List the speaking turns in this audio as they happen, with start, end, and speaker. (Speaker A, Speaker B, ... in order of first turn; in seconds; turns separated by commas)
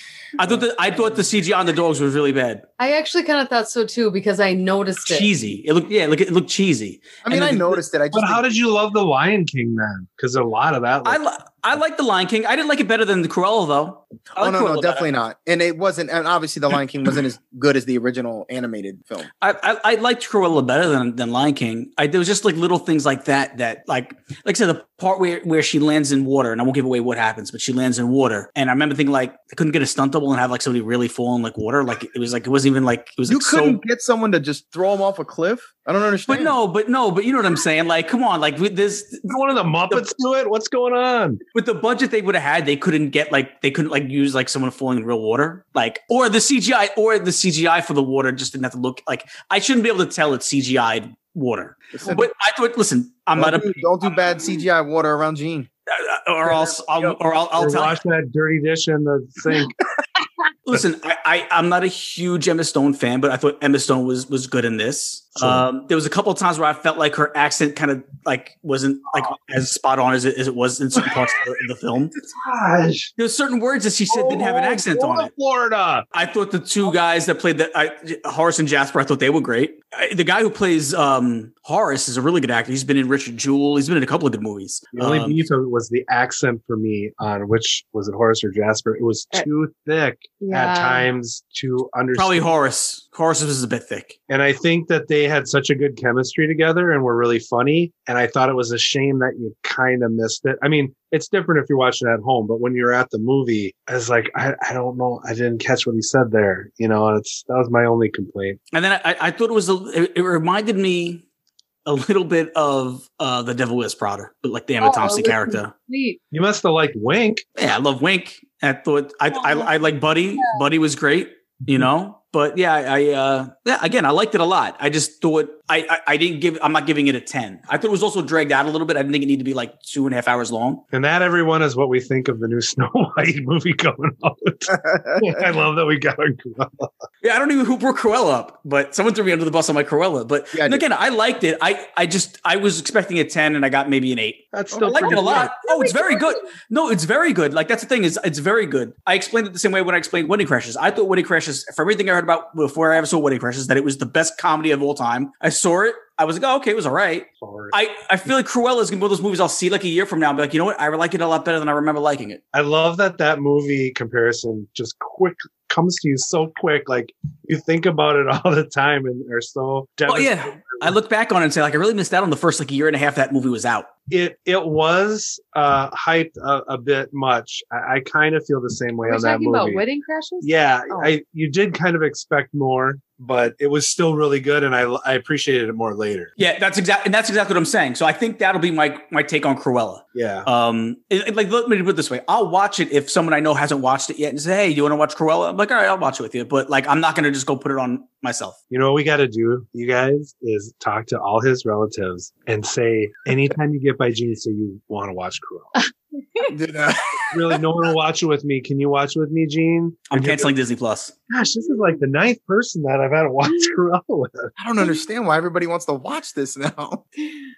Speaker A: 0.4-2.6, Speaker B: 0.4-1.1, Speaker C: 2.8-5.3, Speaker A: 5.0-7.8, Speaker B: 7.2-8.5, Speaker D: 8.1-11.2, Speaker A: 11.0-15.1, Speaker B: 14.4-19.3, Speaker A: 19.4-33.8, Speaker B: 33.3-36.5, Speaker A: 36.3-39.3, Speaker D: 39.3-41.4, Speaker A: 41.5-54.5, Speaker B: 51.9-52.3, Speaker B: 53.3-55.7, Speaker A: 55.9-58.0, Speaker B: 56.5-57.1, Speaker D: 57.5-59.8, Speaker A: 60.6-72.1, Speaker D: 65.4-65.6, Speaker D: 71.0-71.3, Speaker D: 72.2-73.1, Speaker A: 73.2-75.3, Speaker D: 74.1-76.0, Speaker A: 76.1-85.4, Speaker D: 84.9-92.5, Speaker C: 90.4-91.1, Speaker A: 92.1-94.2, Speaker D: 94.3-108.6, Speaker A: 108.7-111.2, Speaker A: 111.8-115.7, Speaker C: 114.8-116.2, Speaker D: 116.3-117.4, Speaker A: 117.5-130.8, Speaker C: 119.3-120.6, Speaker D: 130.9-136.9, Speaker B: 134.7-135.1, Speaker A: 137.2-162.4, Speaker B: 140.5-140.8, Speaker D: 144.5-145.5, Speaker B: 144.7-145.4, Speaker C: 145.4-146.5, Speaker D: 157.4-157.7, Speaker D: 162.5-170.9, Speaker A: 170.1-173.9, Speaker D: 174.1-179.8, Speaker C: 179.1-181.1, Speaker D: 180.4-186.3, Speaker A: 186.4-198.6, Speaker D: 190.1-190.5, Speaker D: 198.7-205.7, Speaker B: 206.5-207.6, Speaker D: 207.3-210.5, Speaker A: 210.1-211.1, Speaker D: 211.3-214.5, Speaker B: 214.6-217.0